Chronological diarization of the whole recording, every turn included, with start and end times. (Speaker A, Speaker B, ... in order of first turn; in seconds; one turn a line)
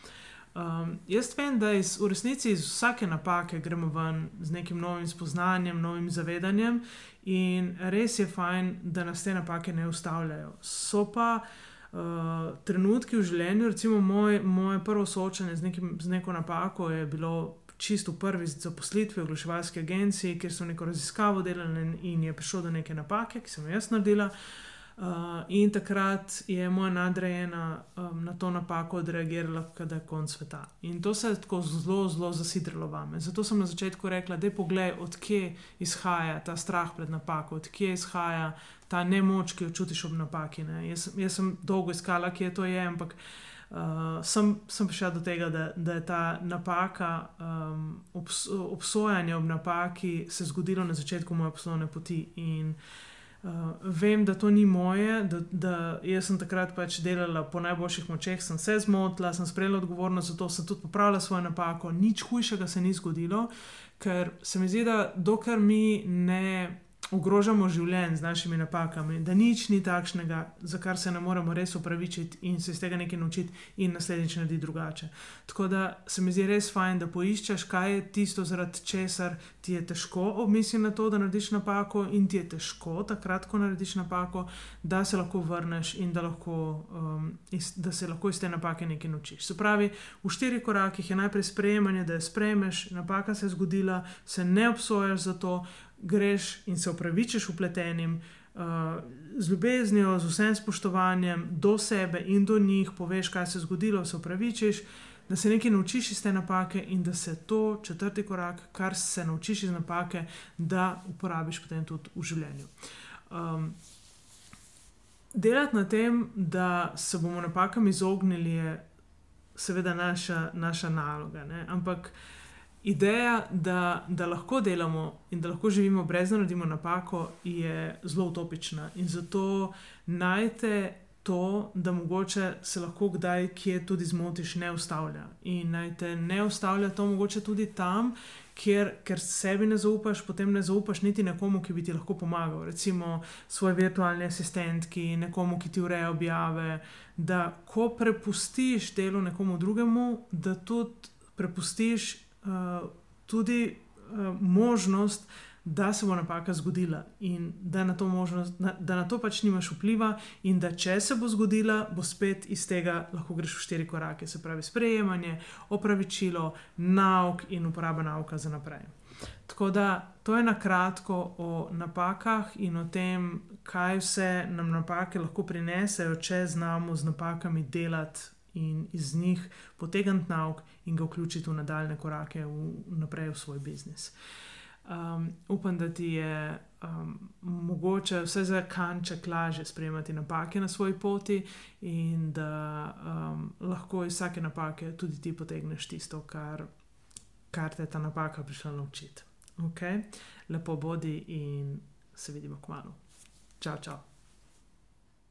Speaker A: 0.5-24.3
Speaker A: 25.0-52.8
Speaker A: 53.4-112.7
Speaker A: 113.3-113.8
Speaker A: 115.3-118.8
Speaker A: 119.5-122.2
Speaker A: 122.8-168.9
Speaker A: 169.5-184.1
Speaker A: 184.8-196.7
Speaker A: 197.5-203.0
Speaker A: 203.6-204.0